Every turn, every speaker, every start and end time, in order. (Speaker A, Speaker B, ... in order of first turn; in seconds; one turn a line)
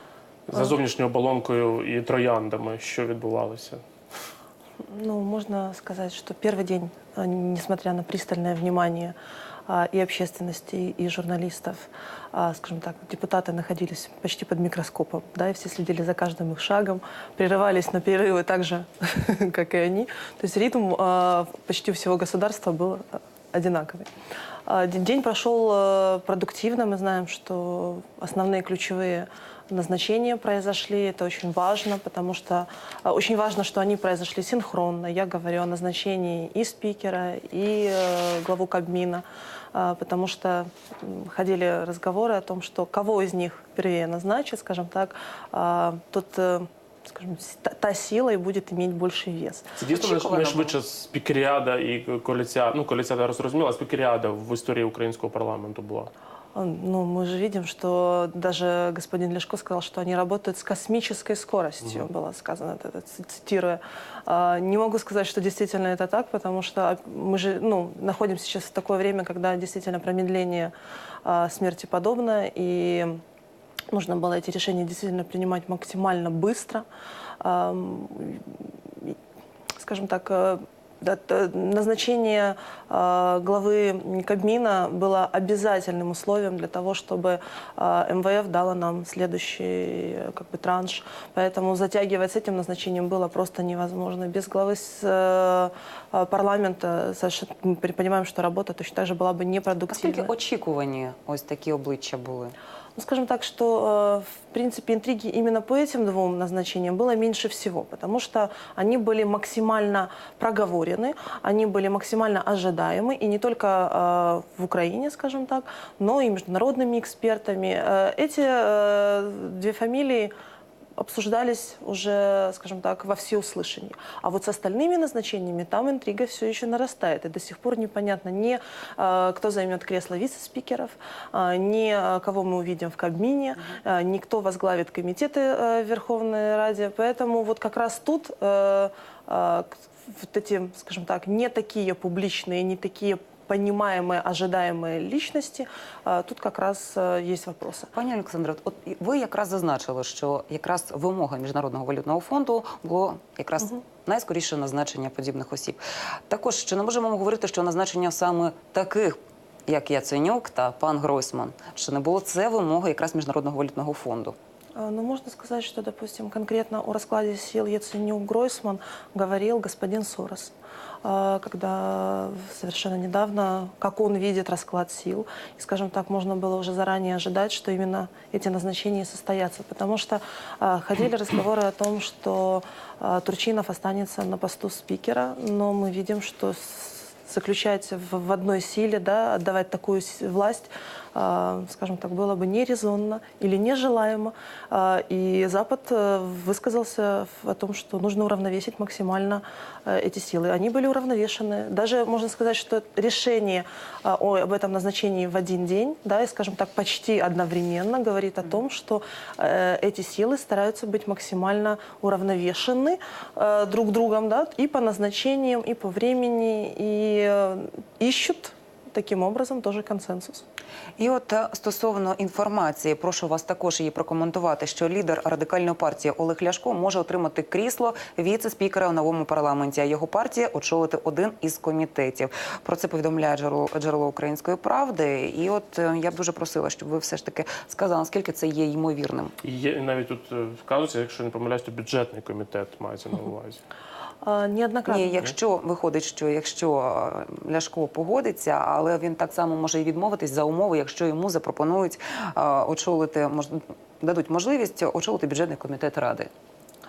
Speaker A: 0.5-3.8
Speaker B: 4.9-9.1
Speaker B: 9.7-24.1
Speaker B: 24.7-49.7
Speaker A: 49.8-56.1
Speaker C: 49.9-50.7
Speaker B: 56.5-70.7
Speaker B: 71.2-73.2
Speaker B: 73.9-76.8
Speaker B: 77.4-79.2
Speaker B: 79.8-100.3
Speaker C: 99.9-102.5
Speaker B: 103.0-120.3
Speaker B: 121.0-147.9
Speaker C: 147.9-164.3
Speaker B: 164.8-220.4
Speaker C: 221.0-239.3
Speaker A: 239.4-243.6
Speaker B: 244.2-245.1
Speaker C: 244.9-256.3